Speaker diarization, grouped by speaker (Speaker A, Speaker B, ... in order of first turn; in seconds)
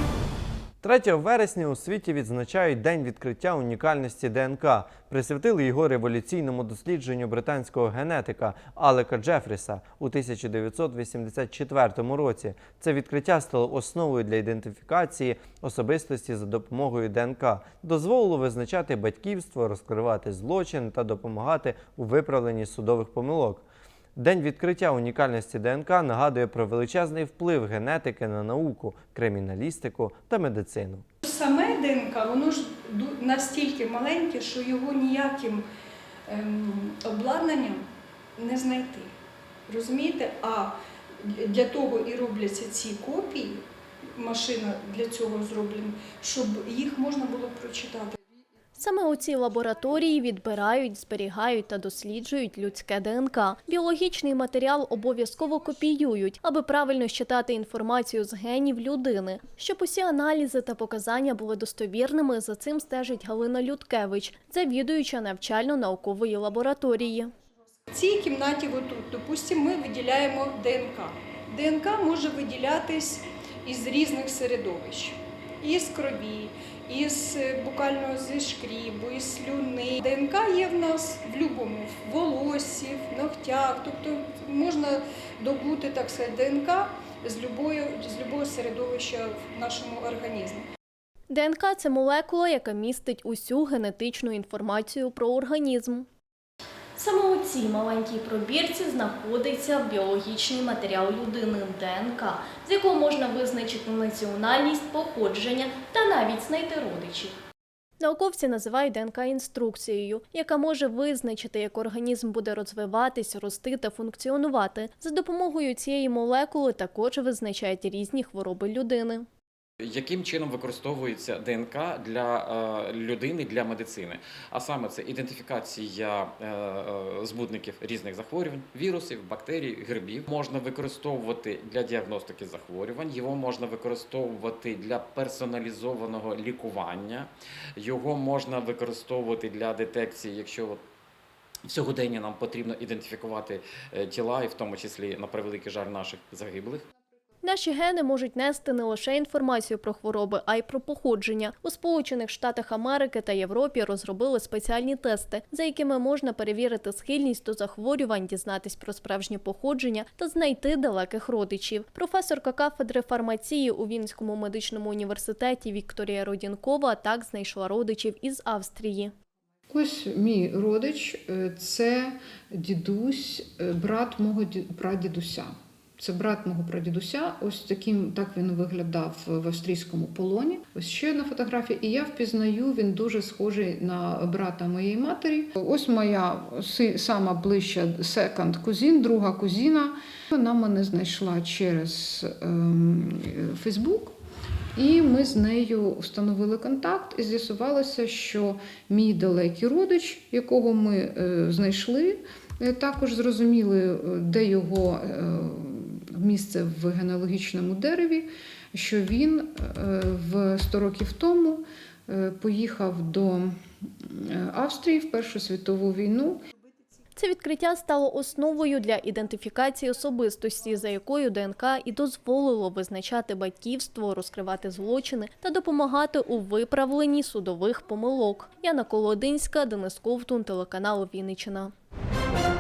Speaker A: 0.8-23.6, 24.1-31.0
Speaker B: 31.2-35.6, 36.3-37.9, 38.4-39.1, 39.7-43.6, 44.1-48.1, 67.9-90.7
Speaker C: 48.8-67.3, 91.3-96.1, 97.0-107.3, 108.0-119.2, 147.4-169.1, 217.2-231.7
Speaker D: 119.8-140.8, 141.7-146.8
Speaker E: 169.7-194.1, 194.7-213.6, 214.2-216.4